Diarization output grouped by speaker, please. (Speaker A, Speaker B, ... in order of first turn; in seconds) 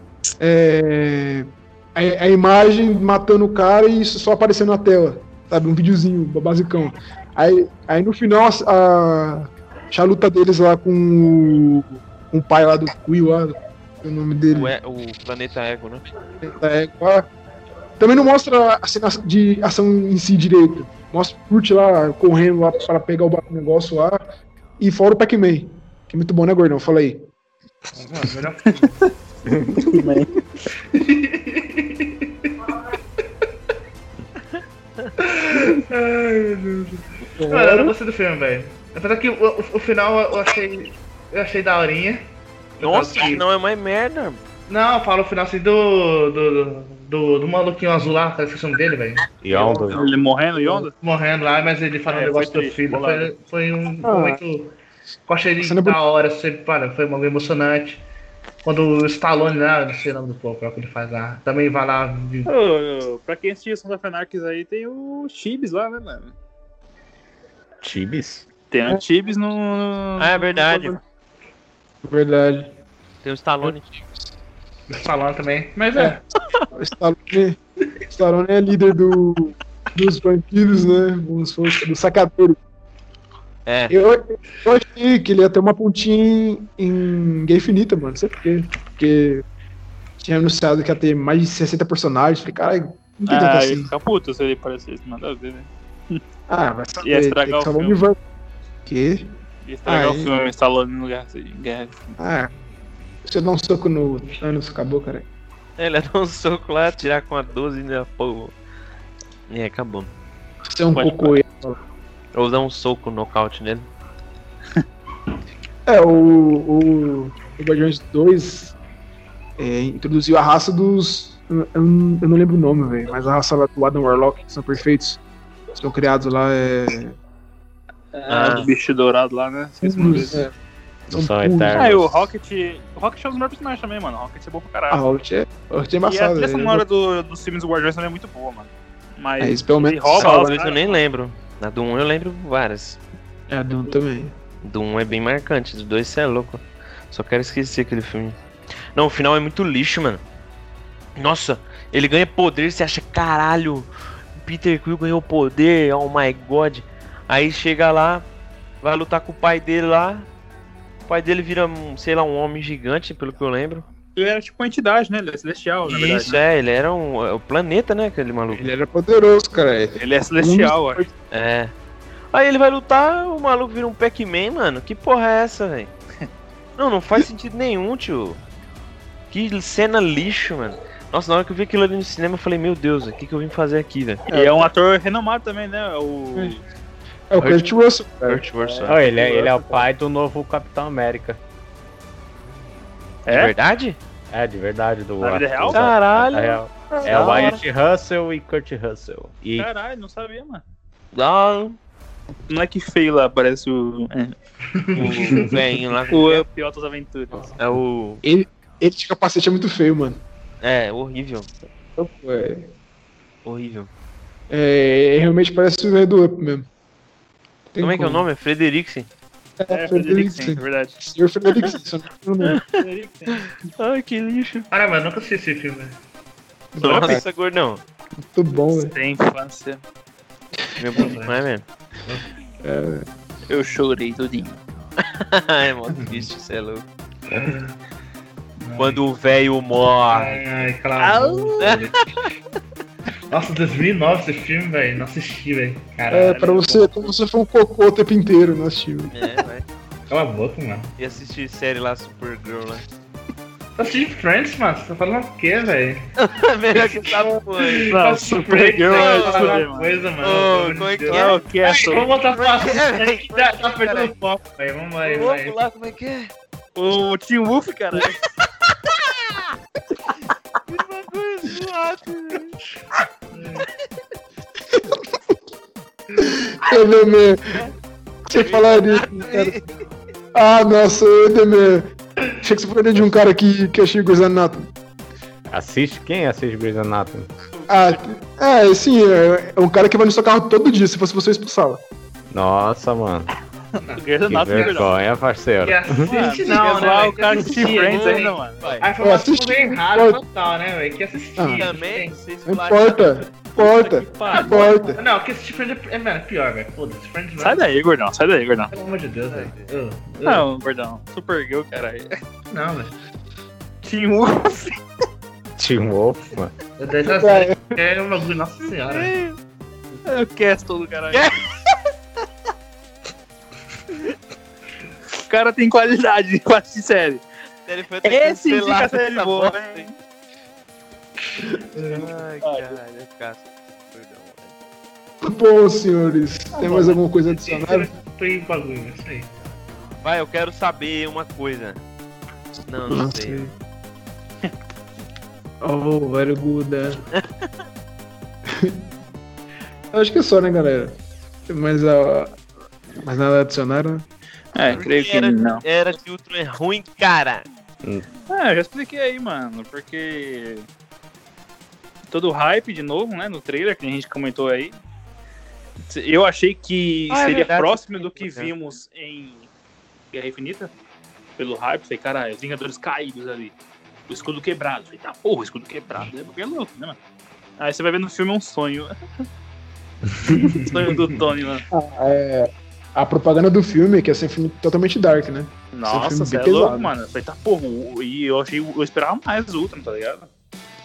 Speaker A: 0.4-14.7, 16.4-17.3, 18.0-24.2, 24.8-27.3, 37.4-37.9, 50.5-50.8, 54.0-54.4, 55.6-56.0, 72.0-72.7, 73.6-74.2, 76.7-77.6, 78.1-82.6, 83.9-89.4, 90.2-93.9, 96.5-98.2, 98.8-99.3, 99.8-100.3, 102.2-102.5, 103.2-105.2, 110.7-111.8, 115.8-118.7, 119.6-125.2, 125.7-127.2, 129.8-130.5, 131.1-132.0, 134.9-136.8, 139.4-140.5, 143.5-144.3, 168.5-171.1, 184.3-184.7, 187.3-188.4, 197.0-197.5, 208.2-210.2, 212.0-212.7, 214.5-216.7, 217.7-218.2, 219.6-222.6, 226.7-227.2, 228.3-228.9, 232.6-233.0, 246.1-249.2, 257.0-257.4, 274.7-275.1, 276.2-277.7, 278.2-279.6, 280.3-284.7, 287.7-291.8, 299.0-300.2, 301.4-301.7, 302.4-305.0, 317.1-317.7, 335.2-337.9, 342.9-343.5, 345.6-347.0, 348.5-348.8, 349.9-350.9, 351.5-352.4, 353.0-354.0, 381.7-386.9
Speaker B: 14.5-16.0, 42.8-44.4, 70.2-71.0, 73.2-73.9, 83.7-83.9, 105.8-108.5, 109.5-110.1, 112.3-113.8, 128.3-128.7, 140.2-143.0, 144.6-148.3, 148.9-150.2, 151.2-153.9, 154.4-158.2, 158.8-160.3, 161.1-163.8, 165.8-168.7, 171.3-171.7, 172.3-175.9, 176.8-178.4, 179.3-184.2, 187.4-187.7, 188.2-189.0, 193.3-194.0, 195.7-197.6, 201.1-201.8, 204.9-206.4, 207.6-208.2, 210.6-211.5, 213.4-213.9, 217.8-219.1, 222.4-222.8, 223.3-224.7, 226.8-227.8, 230.8-231.6, 235.0-236.8, 238.8-240.4, 241.6-242.3, 249.1-249.6, 251.0-252.8, 256.2-258.0, 258.8-259.6, 260.2-264.1, 265.0-266.3, 268.9-269.4, 270.7-272.6, 278.3-279.6, 296.6-297.1, 297.8-298.9, 301.5-303.2, 309.3-309.7, 318.9-319.4, 327.6-329.9, 331.9-334.5, 340.0-341.8, 342.7-343.4, 347.1-347.5, 354.6-357.5, 367.1-368.5
Speaker C: 27.9-29.0, 30.9-32.8, 35.2-42.3, 42.8-43.4, 44.7-49.3, 50.9-54.7, 55.3-58.0, 58.6-62.5, 74.9-76.2, 204.7-205.6, 224.7-226.0, 230.9-231.4, 235.9-236.3, 237.3-237.7, 238.6-239.0, 240.1-242.0, 243.3-246.3, 250.1-250.9, 253.8-256.1, 257.6-265.6, 273.3-273.6, 293.8-294.8, 295.6-302.2, 304.4-307.6, 308.7-310.5, 312.5-312.9, 316.8-319.1, 331.7-332.1, 336.5-339.3, 380.3-380.7
Speaker D: 29.5-29.7, 49.4-50.0, 67.8-68.4, 131.1-132.2, 188.8-191.4, 194.3-199.7, 285.5-287.3, 292.3-293.3, 294.3-296.1, 315.6-316.5
Speaker E: 29.8-30.3, 49.5-50.9, 52.1-53.3, 62.4-66.3, 68.7-71.0, 93.3-96.2, 97.0-98.0, 99.6-102.1, 110.9-111.4, 128.1-130.5, 131.7-135.1, 136.0-140.9, 164.2-166.4, 169.9-171.0, 184.3-186.6, 188.6-189.8, 193.2-193.5, 195.2-195.9, 199.6-200.6, 202.5-204.3, 206.1-207.5, 219.7-221.0, 222.7-223.5, 226.8-227.2, 228.7-229.8, 233.5-234.5, 241.0-241.8, 246.1-247.2, 257.9-260.0, 261.1-262.1, 266.8-268.2, 293.9-294.9, 296.0-298.8, 303.5-304.8, 307.4-308.7, 310.2-312.1, 313.8-314.8, 320.1-321.3, 325.2-327.2, 328.0-329.9, 332.4-332.8, 354.5-355.6, 358.3-360.7, 362.1-364.8, 365.9-369.5, 370.1-370.7, 371.4-373.5, 374.1-377.0, 377.6-378.9, 380.3-381.6, 385.7-390.3